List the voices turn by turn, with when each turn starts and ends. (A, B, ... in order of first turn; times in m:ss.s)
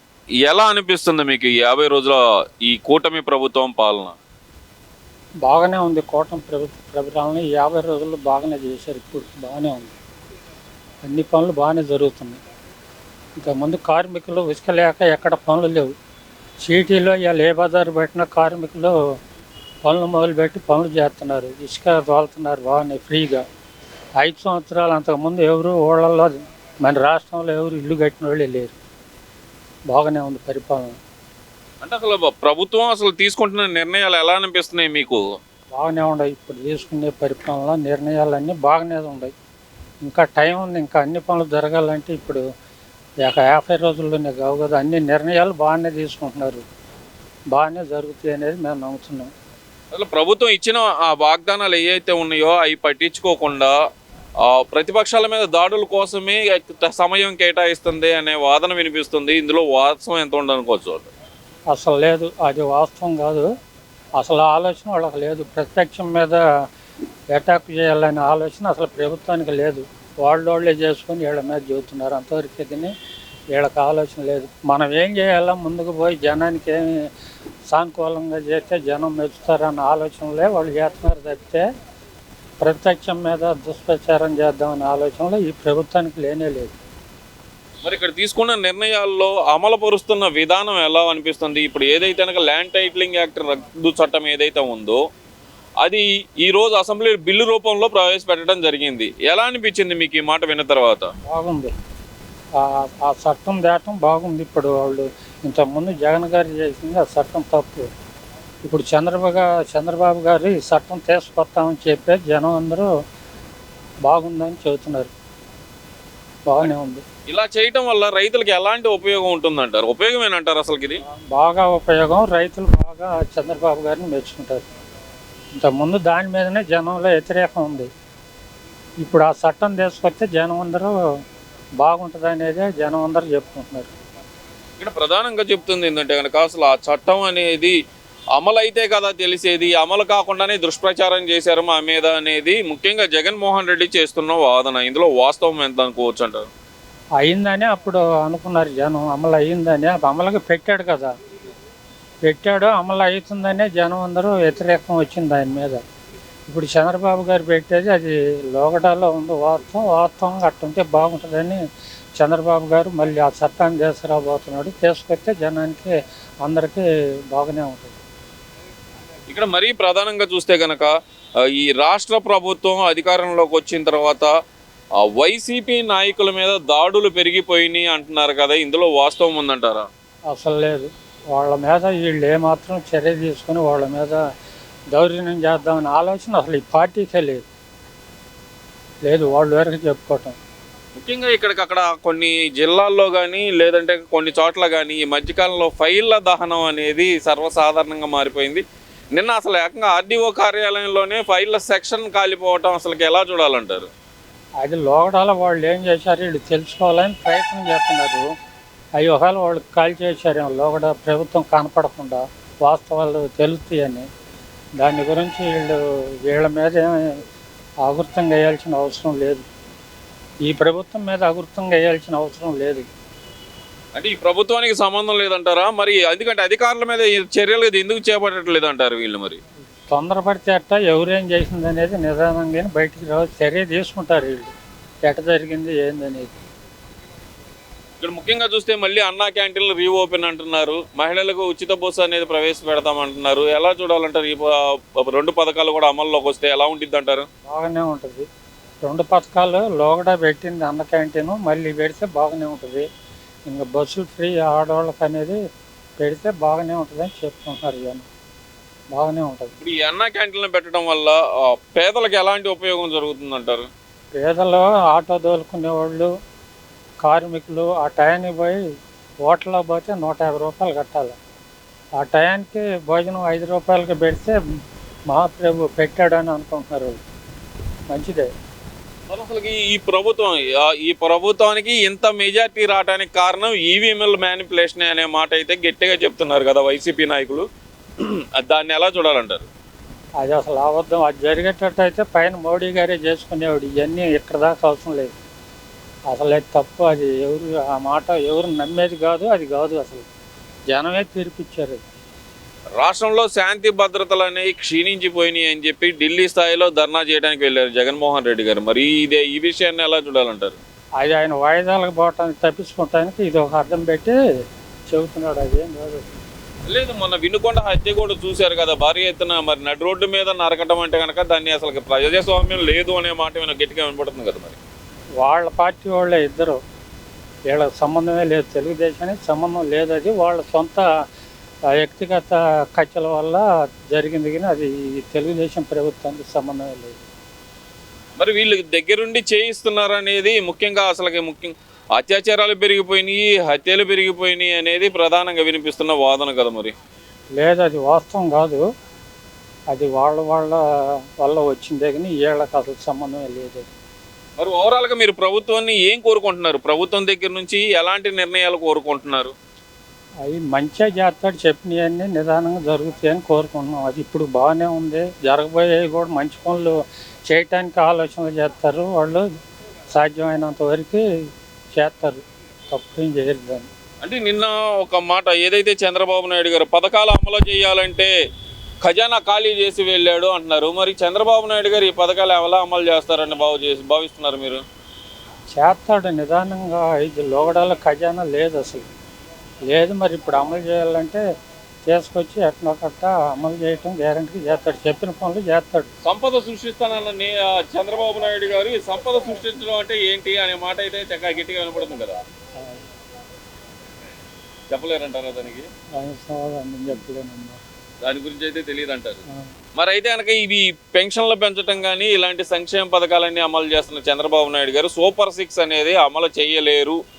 0:00.4-0:04.2 A
0:05.4-0:09.9 B
0:11.0-0:12.4 B
0:13.4-0:15.9 B
0:16.6-0:19.1 B
0:19.8-0:23.4 B
0:24.2-0:28.7 B
0:29.9-0:31.0 B
0:31.8-0:35.4 A
0:35.7-0:39.3 B
0:40.0-0:42.4 B
0:43.2-0:46.6 B
0:47.5-0:49.3 B
0:49.9-0:53.7 A
0:54.4-1:01.1 A
1:01.7-1:03.5 B
1:04.2-1:06.4 B
1:07.3-1:12.9 B
1:13.5-1:17.1 B
1:17.7-1:21.6 B
1:22.6-1:26.8 B
1:27.8-1:35.0 A
1:35.8-1:41.1 A
1:41.2-1:41.7 B
1:42.6-1:47.9 B
1:48.6-1:52.9 B
1:54.0-1:55.1 B
1:56.5-1:57.0 B
1:57.3-2:01.0 A
2:01.1-2:04.6 B
2:05.6-2:07.9 B
2:09.0-2:10.9 B
2:11.8-2:13.9 B
2:14.8-2:17.8 A
2:18.4-2:26.5 A
2:27.2-2:31.1 B
2:32.2-2:35.8 B
2:36.5-2:41.6 B
2:42.2-2:48.0 B
2:49.3-2:54.3 A
2:55.0-2:59.8 A
3:00.3-3:04.2 B
3:04.9-3:07.4 B
3:09.0-3:10.4 B
3:11.0-3:18.6 A
3:19.1-3:23.9 A
3:24.6-3:28.3 B
3:29.0-3:34.1 B
3:34.8-3:37.2 B
3:37.8-3:39.4 B
3:40.4-3:42.9 B
3:43.9-3:49.4 A
3:49.9-3:54.5 B
3:55.1-3:56.3 B
3:58.0-4:07.3 A
4:07.5-4:08.3 B
4:08.8-4:12.8 B
4:13.5-4:15.4 B
4:16.0-4:18.1 B
4:18.9-4:19.5 B
4:19.6-4:23.7 A
4:24.1-4:26.1 B
4:27.0-4:28.6 B
4:29.2-4:31.2 B
4:32.0-4:34.4 B
4:35.1-4:37.0 B
4:37.9-4:38.3 B
4:39.1-4:47.4 A
4:48.0-4:49.5 A
4:50.2-4:55.2 B
4:56.1-5:00.1 B
5:00.7-5:01.8 B
5:02.8-5:10.6 A
5:11.0-5:14.2 B
5:14.9-5:16.0 B
5:16.6-5:24.6 A
5:25.2-5:26.6 B
5:27.5-5:30.9 B
5:31.7-5:37.0 B
5:38.2-5:46.7 A
5:47.4-5:48.6 B
5:49.7-5:53.7 B
5:54.4-5:59.3 A
6:00.2-6:06.7 B
6:07.3-6:09.2 B
6:09.9-6:11.0 B
6:11.7-6:13.7 B
6:14.0-6:18.1 A
6:18.8-6:24.6 A
6:25.5-6:28.9 B
6:29.7-6:31.2 B
6:31.8-6:35.9 B
6:36.0-6:42.2 A
6:44.7-6:45.7 A
6:46.0-6:47.6 B
6:48.0-6:49.2 A
6:49.8-6:57.0 A